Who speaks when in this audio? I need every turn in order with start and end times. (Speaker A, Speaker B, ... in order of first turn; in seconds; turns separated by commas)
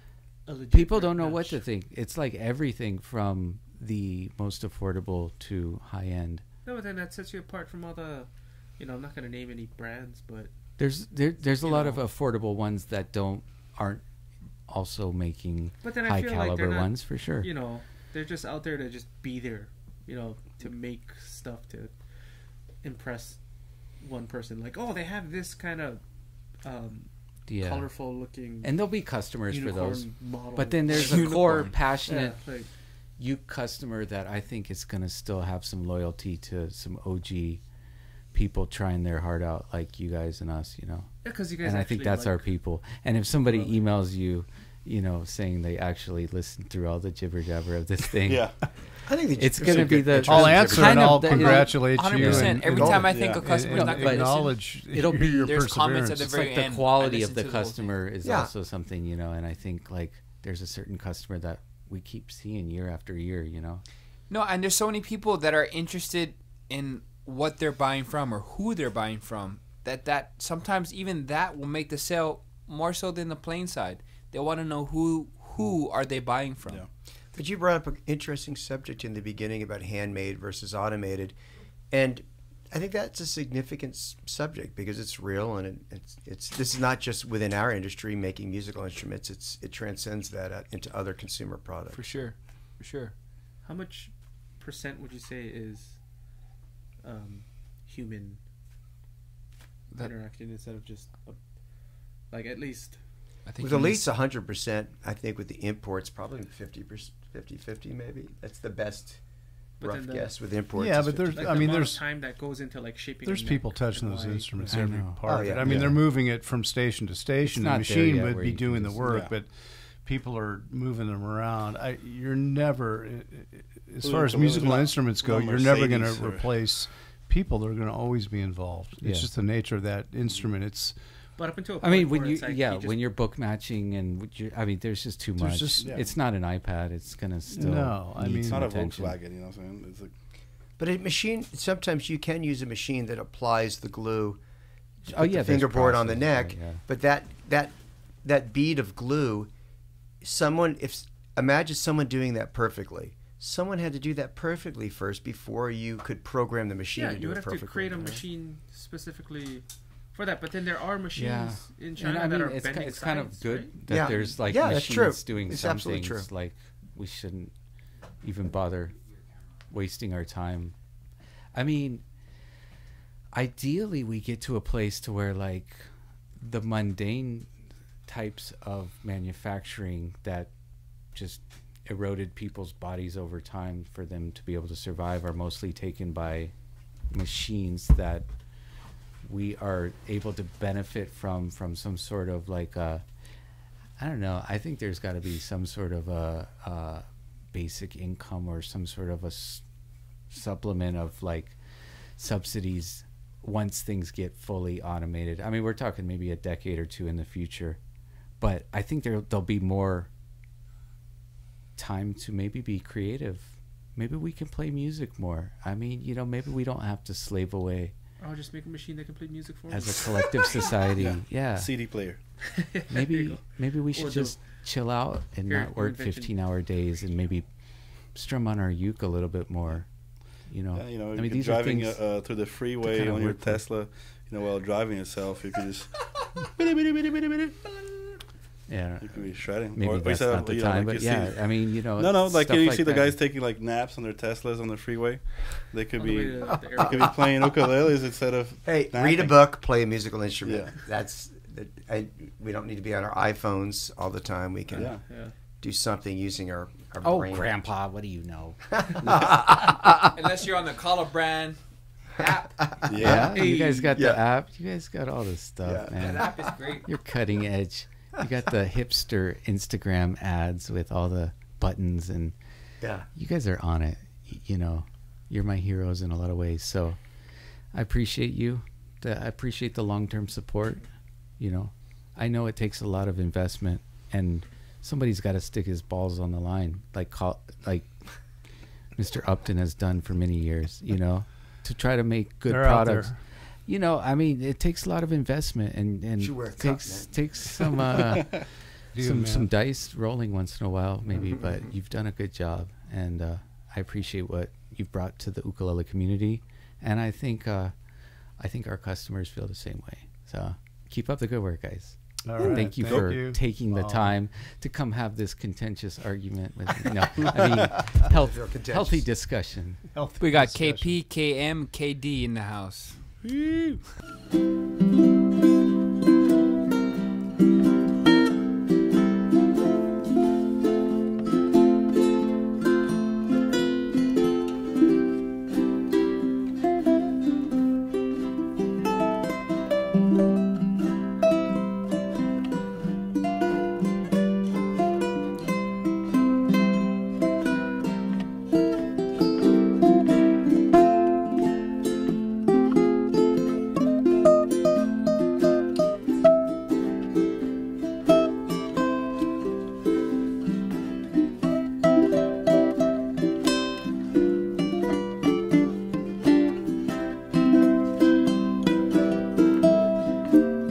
Speaker A: 0.5-1.6, Speaker B: 0.7-6.4, Speaker A: 6.6-10.5, Speaker B: 10.8-14.0, Speaker A: 11.4-12.1, Speaker B: 14.7-17.5, Speaker A: 15.8-21.9, Speaker A: 22.8-23.4, Speaker A: 24.0-26.0, Speaker A: 26.6-28.7, Speaker B: 27.5-27.9, Speaker B: 28.6-32.4, Speaker A: 29.5-32.7, Speaker C: 31.0-31.7, Speaker B: 33.2-37.6, Speaker B: 38.3-48.5, Speaker A: 41.2-42.5, Speaker D: 48.3-48.5, Speaker E: 49.1-50.9, Speaker B: 49.4-63.8, Speaker F: 50.2-56.3, Speaker C: 50.8-54.6, Speaker E: 52.7-53.1, Speaker D: 53.1-53.4, Speaker C: 55.4-58.0, Speaker E: 58.2-58.5, Speaker C: 64.3-76.8, Speaker E: 77.3-81.3, Speaker E: 81.9-92.2, Speaker C: 91.9-93.1, Speaker A: 93.6-96.0, Speaker A: 97.0-98.4, Speaker A: 99.9-101.5, Speaker A: 102.2-103.0, Speaker C: 103.5-104.1, Speaker E: 103.6-109.3, Speaker E: 109.8-111.7, Speaker A: 109.8-110.4, Speaker F: 110.7-112.0, Speaker A: 111.3-114.7, Speaker F: 113.2-130.9, Speaker B: 114.7-116.0, Speaker E: 115.2-115.7, Speaker B: 117.4-119.0, Speaker D: 119.0-119.3, Speaker D: 124.0-126.5, Speaker B: 129.0-129.3, Speaker A: 131.3-133.0, Speaker B: 131.8-139.2, Speaker F: 135.4-136.0, Speaker F: 137.5-138.7, Speaker D: 137.6-140.1, Speaker E: 140.8-144.4, Speaker E: 145.1-149.5, Speaker B: 145.1-146.8, Speaker E: 150.2-158.2, Speaker A: 156.9-164.3, Speaker B: 161.1-167.5, Speaker E: 163.9-166.3, Speaker B: 168.2-169.0, Speaker B: 169.7-170.7, Speaker B: 171.5-172.0, Speaker B: 173.3-177.5, Speaker B: 178.1-180.5, Speaker B: 181.1-186.5, Speaker B: 187.1-188.3, Speaker B: 189.2-193.0, Speaker B: 194.0-199.6, Speaker B: 200.3-201.6, Speaker B: 202.2-207.8, Speaker B: 208.4-210.1, Speaker B: 211.8-217.9, Speaker A: 218.2-220.7, Speaker B: 219.7-221.7, Speaker D: 221.0-222.2, Speaker A: 222.5-223.4, Speaker B: 222.9-227.5, Speaker A: 223.9-224.5, Speaker A: 225.4-226.3, Speaker B: 228.1-229.9, Speaker B: 230.4-232.0, Speaker D: 230.7-237.8, Speaker B: 232.8-233.6, Speaker B: 238.7-243.2, Speaker D: 239.0-249.3, Speaker A: 246.0-247.2, Speaker E: 246.5-247.2, Speaker E: 248.6-257.6, Speaker D: 250.4-250.7, Speaker D: 254.7-255.0, Speaker A: 254.9-255.3, Speaker B: 257.0-259.5, Speaker E: 258.7-260.0, Speaker C: 260.1-262.7, Speaker E: 262.2-264.2, Speaker D: 262.9-263.4, Speaker B: 263.0-272.3, Speaker A: 263.2-264.0, Speaker E: 265.6-266.2, Speaker C: 266.0-266.9, Speaker E: 272.8-273.1, Speaker B: 273.1-277.0, Speaker B: 277.7-280.8, Speaker B: 281.4-287.9, Speaker B: 288.9-293.1, Speaker F: 292.5-293.2, Speaker B: 293.7-307.7, Speaker E: 296.2-297.8, Speaker F: 298.9-299.5, Speaker B: 308.4-319.9, Speaker F: 312.2-314.1, Speaker E: 317.3-319.1, Speaker F: 319.9-320.9, Speaker C: 320.2-323.0, Speaker D: 323.2-323.8